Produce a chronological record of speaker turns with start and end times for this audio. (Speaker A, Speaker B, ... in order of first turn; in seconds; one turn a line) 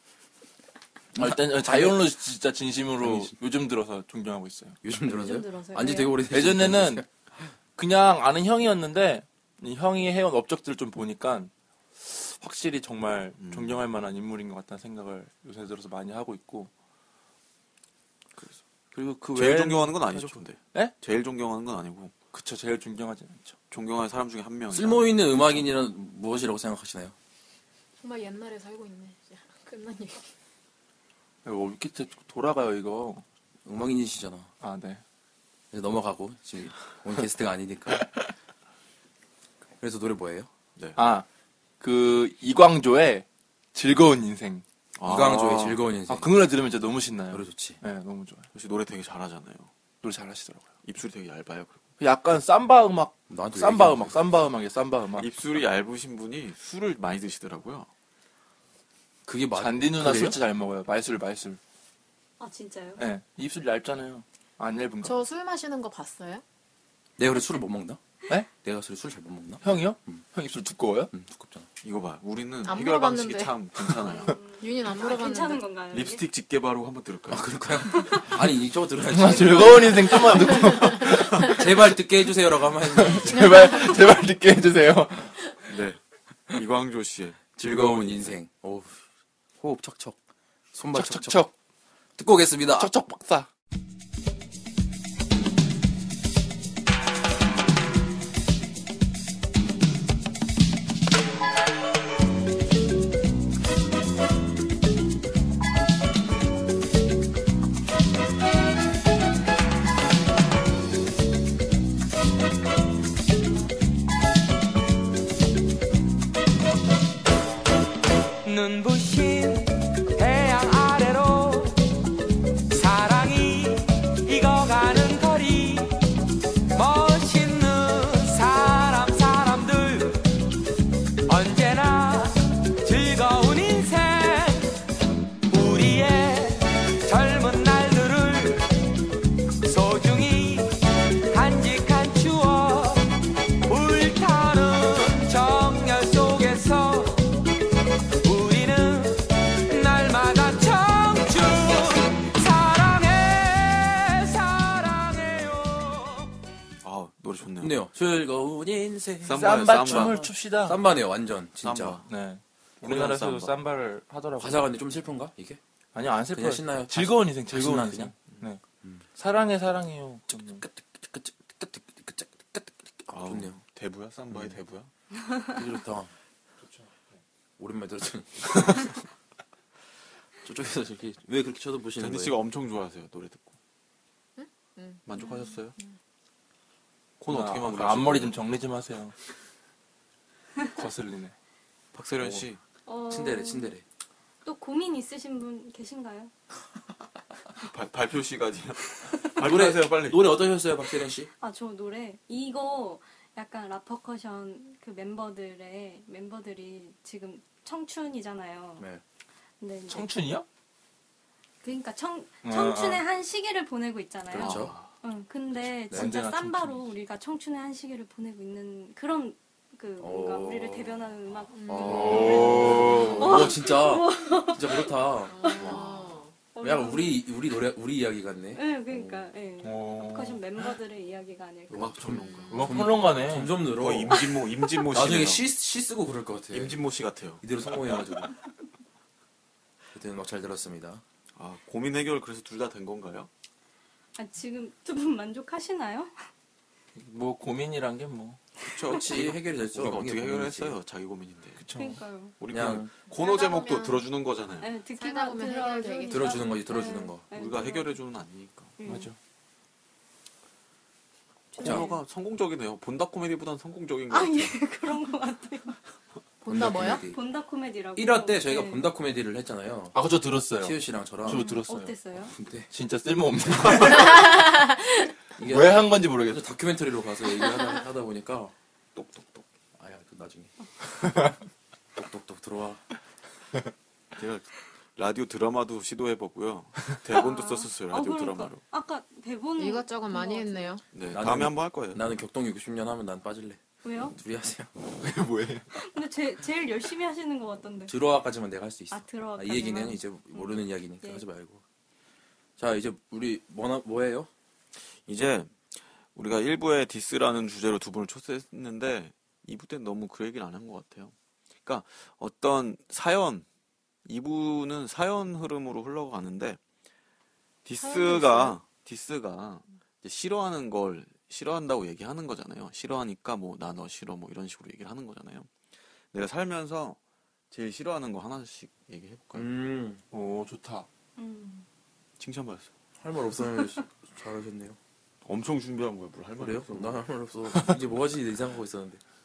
Speaker A: 1.1-2.1
Speaker B: 1.2-4.8
Speaker A: 3.0-3.4
Speaker A: 4.8-7.1
Speaker C: 5.1-6.2
Speaker B: 6.3-7.0
Speaker B: 7.8-16.7
Speaker D: 13.4-13.8
Speaker A: 18.9-20.3
Speaker D: 19.3-22.1
Speaker B: 19.4-19.9
Speaker B: 22.3-23.6
Speaker D: 23.7-25.5
Speaker A: 24.7-27.1
Speaker E: 28.0-30.3
Speaker B: 31.4-33.2
Speaker A: 33.6-34.5
Speaker B: 34.6-35.0
Speaker A: 35.7-38.1
Speaker A: 39.8-40.5
Speaker B: 41.0-41.2
Speaker B: 41.8-44.6
Speaker D: 45.0-45.8
Speaker A: 45.0-46.3
Speaker B: 46.1-48.5
Speaker A: 47.3-47.8
Speaker D: 48.5-49.7
Speaker B: 50.0-50.7
Speaker D: 50.8-51.8
Speaker B: 52.0-55.3
Speaker A: 53.3-54.1
Speaker D: 55.1-57.9
Speaker A: 59.3-60.4
Speaker B: 59.5-61.6
Speaker C: 62.4-63.0
Speaker B: 63.0-65.2
Speaker E: 65.0-66.4
Speaker A: 67.2-68.0
Speaker A: 68.6-70.2
Speaker B: 69.6-71.1
Speaker A: 71.1-71.7
Speaker D: 71.8-74.4
Speaker E: 72.6-73.5
Speaker C: 74.1-76.3
Speaker E: 74.6-75.7
Speaker D: 75.9-77.5
Speaker A: 77.3-80.2
Speaker C: 78.0-78.3
Speaker B: 79.1-81.6
Speaker A: 81.3-83.8
Speaker B: 83.0-85.4
Speaker D: 85.7-86.0
Speaker D: 86.5-88.3
Speaker A: 87.6-89.0
Speaker A: 89.6-90.2
Speaker A: 90.7-91.5
Speaker B: 90.9-91.5
Speaker A: 92.2-92.9
Speaker B: 92.8-93.5
Speaker F: 118.4-121.8
Speaker F: 122.7-126.0
Speaker F: 126.7-130.2
Speaker F: 131.3-134.7
Speaker F: 135.5-138.7
Speaker F: 139.6-143.1
Speaker F: 143.6-147.3
Speaker F: 148.2-156.3
Speaker D: 156.8-157.8
Speaker A: 157.6-162.0
Speaker D: 159.2-160.3
Speaker B: 159.3-160.8
Speaker D: 161.6-162.1
Speaker B: 162.1-164.7
Speaker D: 162.8-163.5
Speaker A: 164.4-165.6
Speaker B: 165.9-168.6
Speaker A: 166.3-168.1
Speaker B: 169.2-170.6
Speaker A: 170.4-173.6
Speaker D: 173.1-174.9
Speaker A: 175.6-176.1
Speaker B: 176.6-176.9
Speaker A: 177.6-178.9
Speaker A: 180.4-182.4
Speaker D: 182.0-183.5
Speaker E: 184.4-185.0
Speaker D: 185.1-185.8
Speaker C: 185.2-185.6
Speaker D: 187.2-188.3
Speaker B: 187.3-189.1
Speaker B: 190.8-191.3
Speaker D: 191.9-192.6
Speaker C: 192.9-193.7
Speaker A: 193.1-193.8
Speaker C: 194.4-196.3
Speaker D: 197.6-200.2
Speaker A: 199.4-201.3
Speaker C: 201.4-208.9
Speaker C: 209.6-210.1
Speaker B: 209.9-210.5
Speaker C: 211.6-224.9
Speaker B: 212.4-213.0
Speaker A: 214.3-214.8
Speaker D: 214.3-214.8
Speaker A: 215.9-216.2
Speaker B: 215.9-216.9
Speaker A: 220.0-221.0
Speaker E: 221.6-222.7
Speaker A: 221.7-225.8
Speaker B: 221.8-223.5
Speaker E: 225.3-226.3
Speaker C: 226.5-227.3
Speaker A: 226.6-229.3
Speaker C: 228.5-232.5
Speaker B: 229.6-230.4
Speaker A: 231.7-234.3
Speaker D: 231.7-232.8
Speaker B: 232.5-233.6
Speaker D: 233.7-235.4
Speaker A: 234.9-236.8
Speaker D: 236.5-237.4
Speaker A: 237.4-238.3
Speaker A: 239.9-241.0
Speaker D: 241.4-243.3
Speaker C: 244.2-246.1
Speaker B: 247.0-248.4
Speaker D: 248.6-251.6
Speaker A: 248.9-250.8
Speaker B: 251.6-252.0
Speaker C: 251.7-252.3
Speaker D: 252.4-254.7
Speaker A: 252.5-252.9
Speaker E: 253.1-254.1
Speaker C: 254.6-258.0
Speaker E: 254.9-256.6
Speaker A: 256.1-257.3
Speaker D: 257.3-258.7
Speaker C: 258.8-259.1
Speaker B: 258.9-259.2
Speaker C: 261.5-262.0
Speaker D: 261.6-264.6
Speaker C: 264.1-265.8
Speaker E: 266.4-267.0
Speaker A: 266.5-267.2
Speaker C: 267.0-268.9
Speaker A: 268.0-270.0
Speaker B: 269.9-271.9
Speaker A: 270.6-272.7
Speaker C: 271.3-272.3
Speaker B: 272.7-274.4
Speaker E: 273.9-275.1
Speaker A: 275.4-278.5
Speaker B: 275.4-276.5
Speaker D: 278.9-279.5
Speaker A: 279.8-280.5
Speaker A: 281.9-282.8
Speaker D: 284.2-288.6
Speaker C: 287.1-290.8
Speaker E: 289.6-290.9
Speaker D: 290.9-292.0
Speaker A: 291.1-294.7
Speaker C: 293.8-294.2
Speaker B: 295.0-295.7
Speaker C: 295.8-298.0
Speaker A: 297.9-301.6
Speaker C: 298.9-301.2
Speaker A: 302.6-304.3
Speaker D: 305.0-311.1
Speaker D: 311.6-313.5
Speaker D: 314.1-316.6
Speaker D: 317.6-325.5
Speaker E: 317.8-318.6
Speaker D: 326.1-327.0
Speaker D: 327.5-329.5
Speaker A: 329.3-330.0
Speaker B: 330.1-330.9
Speaker C: 331.2-331.7
Speaker D: 332.2-332.7
Speaker A: 333.0-334.8
Speaker D: 335.2-337.0
Speaker A: 336.4-339.0